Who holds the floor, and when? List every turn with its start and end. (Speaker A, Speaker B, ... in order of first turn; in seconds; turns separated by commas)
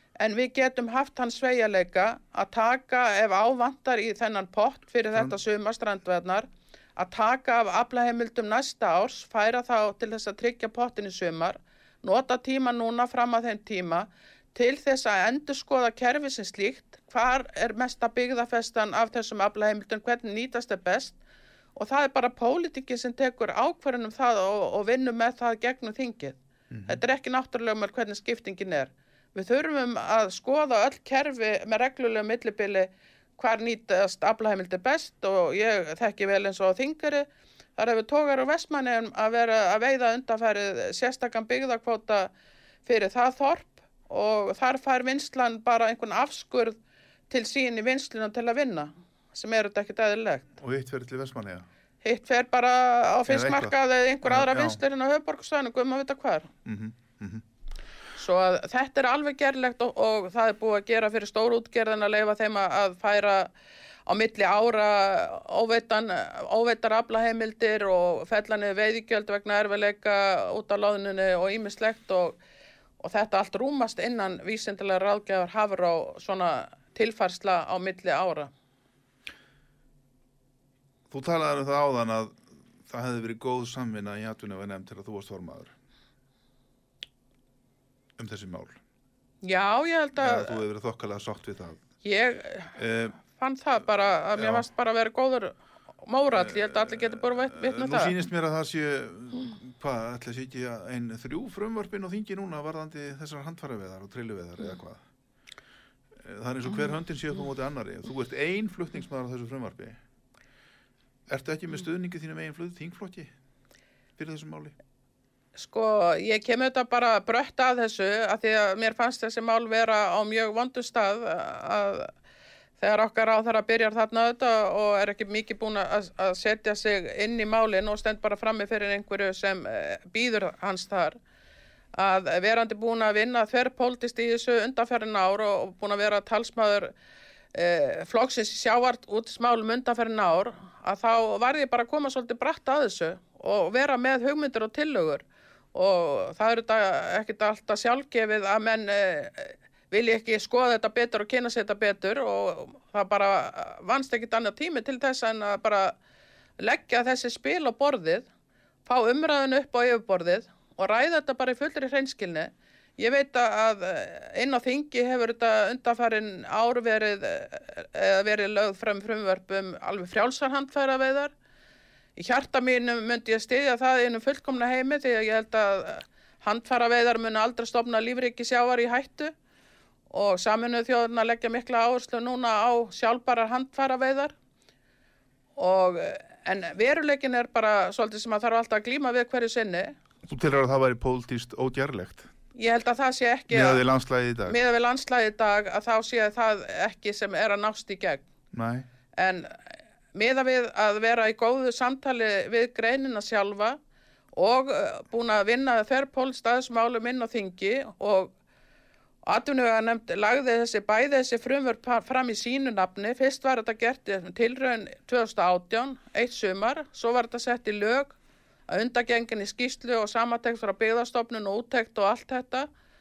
Speaker A: 0.2-21.2, Speaker A: 21.8-42.3, Speaker B: 26.7-27.0, Speaker A: 42.9-46.8, Speaker A: 47.3-50.5, Speaker B: 50.6-51.7, Speaker A: 52.0-56.5, Speaker B: 53.3-54.8, Speaker B: 56.6-57.4, Speaker A: 58.2-63.5, Speaker A: 64.1-72.4, Speaker A: 73.0-78.5, Speaker B: 81.1-85.7, Speaker B: 88.2-88.8, Speaker A: 89.4-90.6, Speaker B: 90.2-91.8, Speaker A: 92.0-92.8, Speaker B: 92.8-93.2, Speaker A: 93.3-98.2, Speaker B: 94.3-94.7, Speaker B: 96.3-105.0, Speaker B: 106.2-110.0, Speaker B: 111.3-113.3, Speaker B: 114.2-114.8, Speaker A: 115.6-122.1, Speaker A: 122.8-131.2, Speaker A: 131.9-136.9, Speaker A: 137.5-156.0, Speaker A: 156.6-158.3, Speaker A: 158.9-171.3, Speaker A: 172.2-179.3, Speaker A: 180.1-184.3, Speaker A: 185.6-189.9, Speaker B: 190.2-192.3, Speaker A: 192.6-193.8, Speaker B: 193.5-194.6, Speaker A: 194.5-198.2, Speaker B: 198.5-198.9, Speaker A: 199.2-203.8, Speaker A: 204.3-208.3, Speaker A: 209.2-218.2, Speaker A: 218.7-222.7